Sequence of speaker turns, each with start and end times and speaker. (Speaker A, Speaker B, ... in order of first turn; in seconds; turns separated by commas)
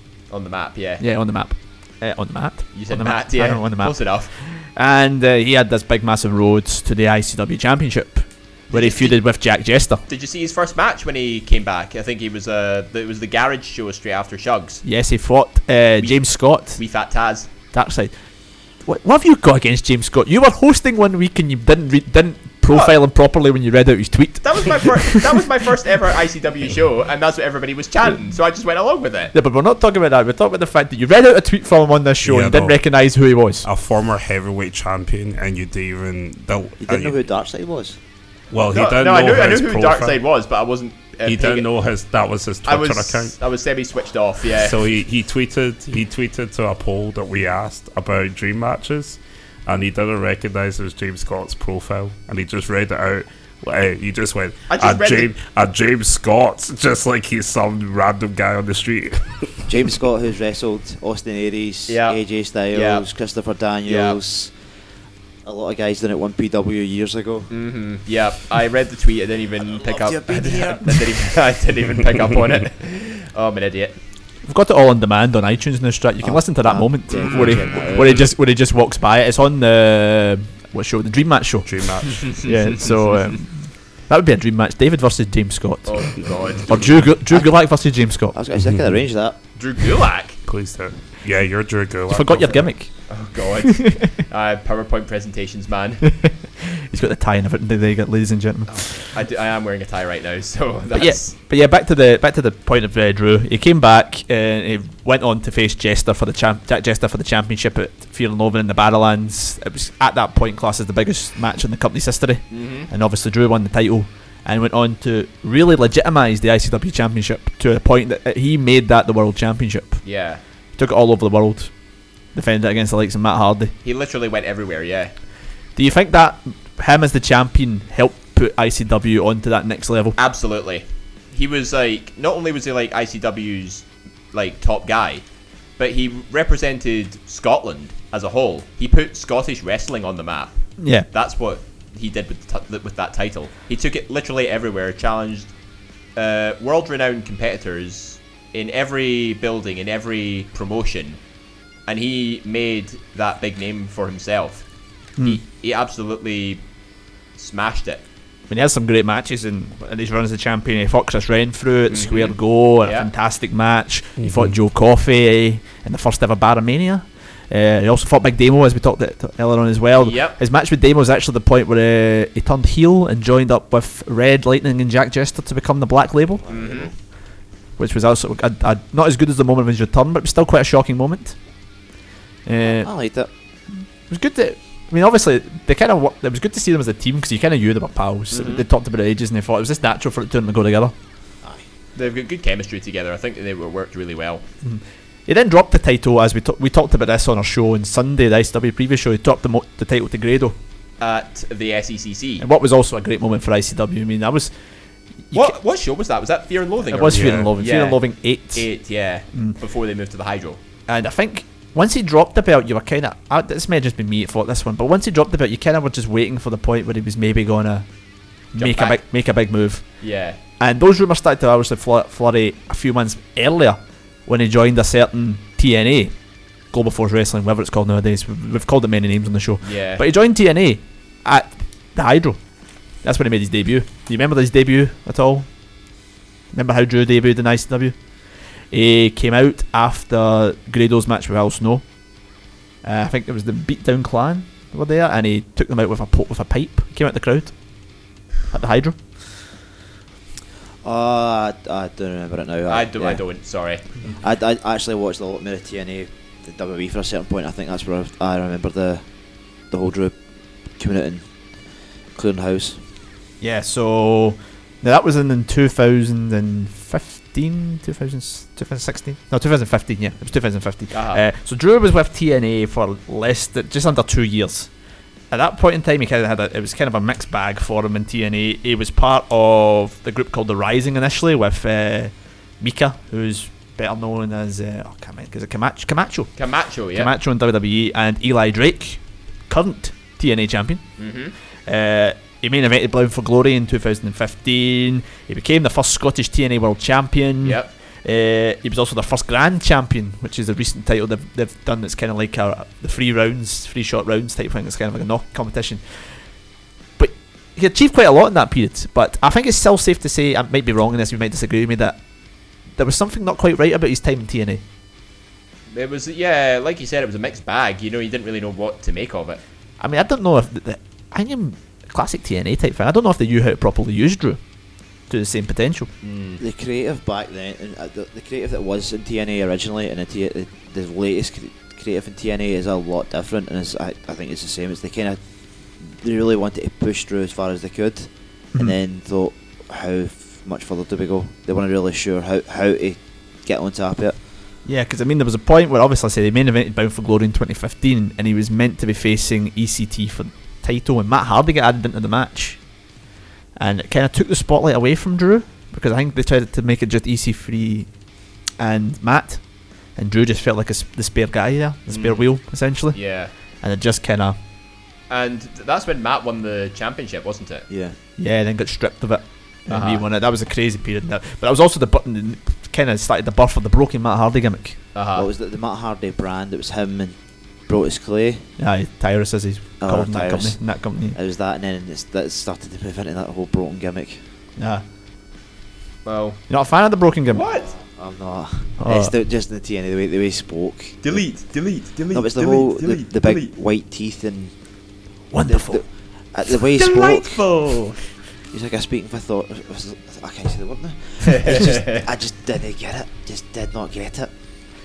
Speaker A: 0.3-1.0, Speaker B: 1.0-10.0, Speaker A: 2.7-4.3, Speaker A: 8.7-9.2, Speaker A: 10.1-14.8, Speaker B: 14.8-16.8, Speaker A: 16.8-17.5, Speaker B: 17.7-18.1, Speaker B: 18.8-25.4, Speaker A: 22.7-23.0, Speaker A: 24.4-29.3, Speaker B: 29.3-33.7, Speaker C: 32.2-32.8, Speaker C: 33.6-37.2, Speaker D: 36.8-38.0, Speaker C: 38.5-40.2, Speaker A: 38.7-41.7, Speaker C: 41.3-43.4, Speaker A: 42.6-44.8, Speaker C: 44.6-59.6, Speaker A: 54.7-55.3, Speaker D: 59.7-64.5, Speaker A: 61.9-62.2, Speaker A: 62.7-63.1, Speaker A: 63.9-64.2, Speaker D: 65.4-67.5, Speaker A: 67.5-74.0, Speaker D: 69.6-71.1, Speaker B: 74.5-81.7, Speaker D: 76.2-78.3, Speaker A: 77.2-77.9, Speaker C: 81.7-82.4, Speaker B: 82.2-88.4, Speaker A: 85.9-87.0, Speaker D: 88.3-89.4, Speaker A: 89.6-90.4, Speaker C: 90.5-92.7, Speaker B: 92.1-92.9, Speaker A: 93.1-96.0, Speaker B: 93.6-94.1, Speaker B: 96.0-99.1, Speaker A: 99.0-101.3, Speaker B: 100.9-120.0, Speaker A: 112.5-112.9, Speaker A: 120.0-120.4, Speaker B: 120.8-121.7, Speaker B: 122.3-123.7, Speaker A: 123.8-125.1, Speaker B: 125.8-130.2, Speaker A: 130.2-135.2, Speaker A: 135.8-140.6, Speaker B: 140.8-141.1, Speaker A: 141.1-145.5, Speaker A: 146.2-151.2, Speaker A: 151.9-154.6, Speaker A: 155.2-156.6, Speaker A: 157.4-158.0, Speaker B: 158.5-176.5, Speaker A: 161.9-163.1, Speaker C: 164.2-164.5, Speaker A: 170.0-170.4, Speaker D: 176.4-176.9, Speaker A: 176.5-176.9, Speaker B: 177.8-181.4, Speaker B: 182.5-182.9, Speaker D: 182.7-183.3, Speaker B: 184.1-190.9, Speaker D: 188.3-188.6, Speaker A: 192.0-194.4, Speaker B: 194.6-200.6, Speaker A: 201.0-202.4, Speaker B: 202.4-204.5, Speaker B: 205.3-205.6, Speaker A: 205.3-208.0, Speaker B: 206.9-208.7, Speaker C: 207.1-207.5, Speaker A: 208.5-210.6, Speaker B: 210.9-217.9, Speaker B: 218.5-219.8, Speaker A: 218.6-219.0, Speaker A: 220.0-220.4, Speaker B: 220.6-226.1, Speaker B: 226.7-232.4, Speaker A: 229.6-230.0, Speaker B: 233.0-235.5, Speaker B: 236.5-237.9, Speaker B: 238.7-241.8, Speaker B: 242.8-247.5, Speaker B: 248.5-249.0, Speaker D: 250.8-253.2, Speaker A: 252.7-253.8, Speaker D: 254.2-259.1, Speaker D: 259.7-260.2, Speaker D: 260.8-261.2, Speaker D: 262.1-262.8, Speaker B: 263.4-274.7, Speaker A: 270.9-271.2, Speaker B: 275.3-286.3, Speaker A: 286.4-287.1, Speaker B: 286.9-290.8, Speaker A: 291.0-291.3, Speaker B: 291.7-305.8, Speaker A: 297.4-297.7, Speaker B: 307.0-312.0, Speaker B: 312.8-314.6, Speaker A: 315.7-319.4, Speaker B: 319.8-324.4, Speaker B: 325.1-325.9, Speaker A: 326.0-326.4, Speaker D: 326.4-335.2, Speaker D: 335.8-344.2, Speaker B: 344.6-352.6, Speaker B: 353.6-357.9, Speaker B: 358.6-359.4, Speaker B: 360.0-363.0, Speaker A: 361.9-362.3, Speaker A: 362.9-363.3, Speaker B: 363.6-364.4, Speaker A: 365.1-367.6, Speaker D: 367.7-368.0, Speaker B: 368.2-374.8, Speaker A: 369.7-370.1, Speaker A: 374.9-375.3, Speaker D: 375.1-378.5, Speaker B: 378.6-381.2, Speaker D: 379.8-380.6, Speaker D: 381.1-384.2, Speaker B: 384.6-384.8, Speaker A: 386.1-386.4, Speaker B: 386.5-387.5, Speaker A: 387.3-387.7, Speaker D: 387.6-391.3, Speaker B: 388.8-389.1, Speaker A: 391.0-393.5, Speaker D: 392.1-394.5, Speaker B: 395.3-395.8, Speaker D: 395.5-397.4, Speaker B: 396.5-397.2, Speaker A: 396.8-398.0, Speaker D: 398.5-404.3, Speaker A: 401.3-402.0